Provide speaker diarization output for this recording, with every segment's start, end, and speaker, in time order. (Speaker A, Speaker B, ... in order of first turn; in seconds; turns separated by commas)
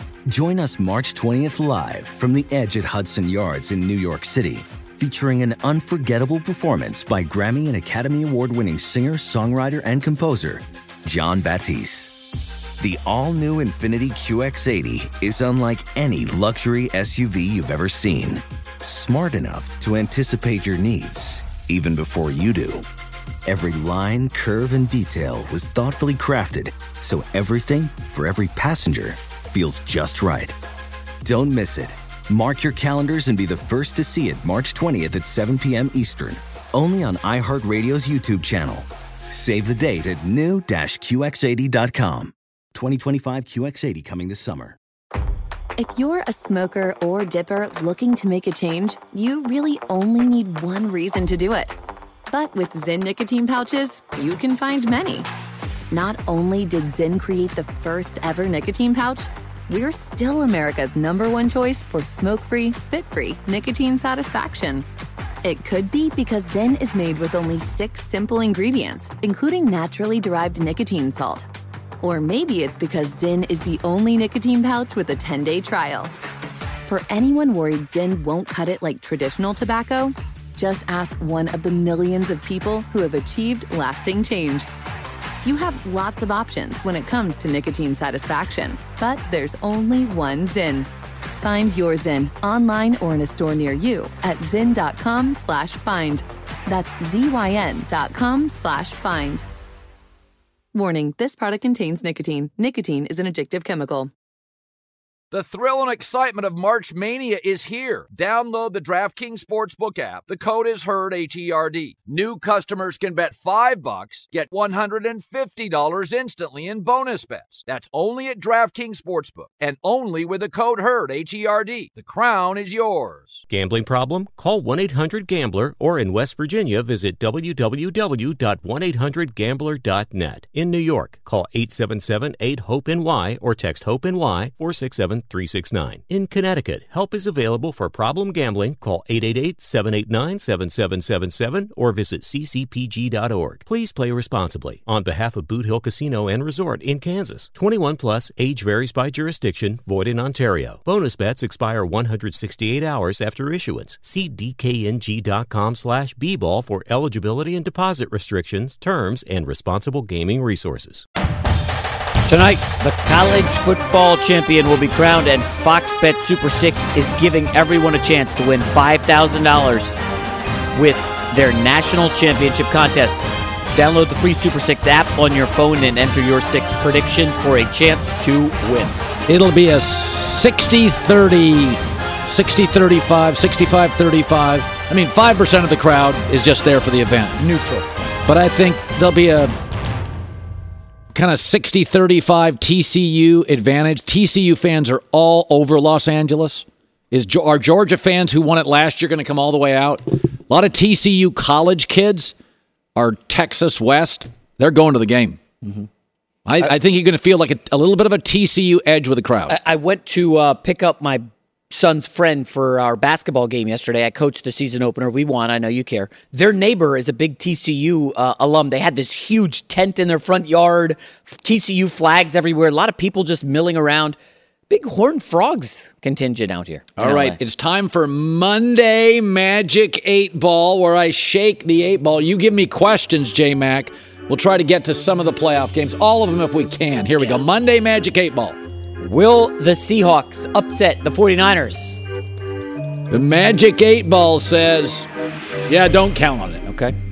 Speaker A: 0.3-12.1, Speaker A: 12.8-22.9, Speaker A: 23.4-30.6, Speaker A: 31.2-44.8, Speaker B: 45.8-51.8, Speaker B: 52.3-55.3, Speaker B: 55.9-64.8, Speaker B: 65.4-71.5, Speaker B: 72.0-76.1, Speaker B: 76.9-84.7, Speaker B: 85.4-90.9, Speaker B: 91.4-99.4, Speaker B: 100.7-104.1, Speaker C: 105.3-123.4, Speaker D: 123.5-161.1, Speaker E: 162.3-169.9, Speaker E: 170.7-173.2, Speaker E: 173.7-179.0, Speaker C: 179.3-187.4, Speaker E: 187.4-187.9, Speaker C: 188.3-189.6, Speaker C: 191.1-202.3, Speaker C: 202.9-205.4, Speaker C: 206.4-209.6, Speaker E: 209.5-224.2, Speaker E: 224.7-227.4, Speaker C: 227.0-238.6, Speaker E: 237.2-237.4, Speaker E: 239.0-242.0, Speaker C: 243.1-245.1, Speaker C: 245.7-246.7, Speaker E: 246.7-246.9